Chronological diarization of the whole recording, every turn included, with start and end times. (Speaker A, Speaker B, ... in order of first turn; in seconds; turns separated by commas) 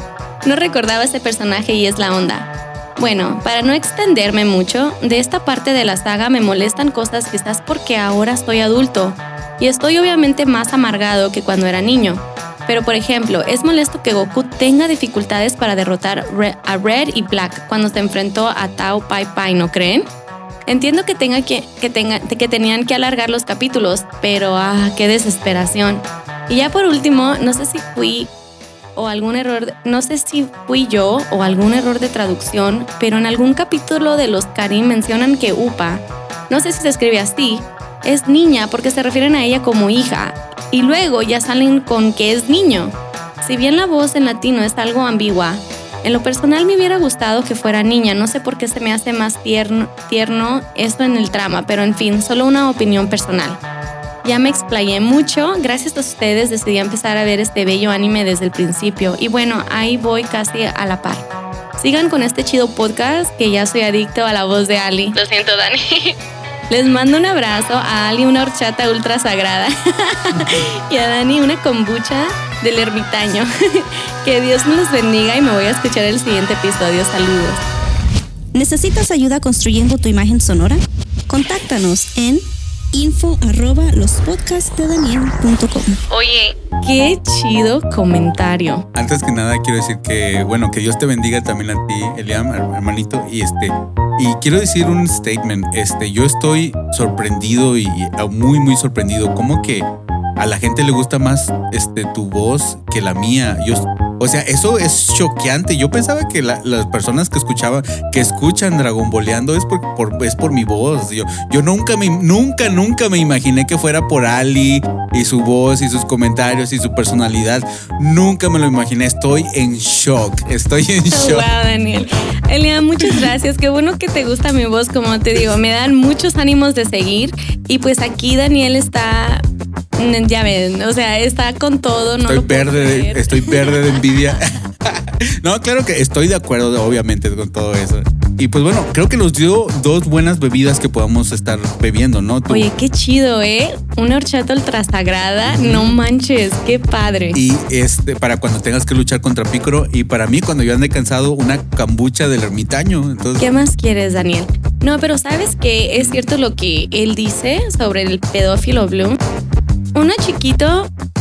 Speaker A: 0.4-20.1, Speaker A: 20.7-28.3, Speaker A: 28.9-53.6, Speaker A: 54.2-61.2, Speaker A: 61.8-66.1, Speaker A: 66.7-77.6, Speaker B: 78.5-86.0, Speaker A: 86.1-88.8, Speaker C: 88.9-121.5, Speaker A: 121.1-129.4, Speaker A: 130.0-133.8, Speaker C: 132.2-142.7, Speaker A: 142.5-147.4, Speaker C: 145.5-146.0, Speaker C: 147.3-153.4, Speaker A: 153.4-159.2, Speaker A: 159.9-160.9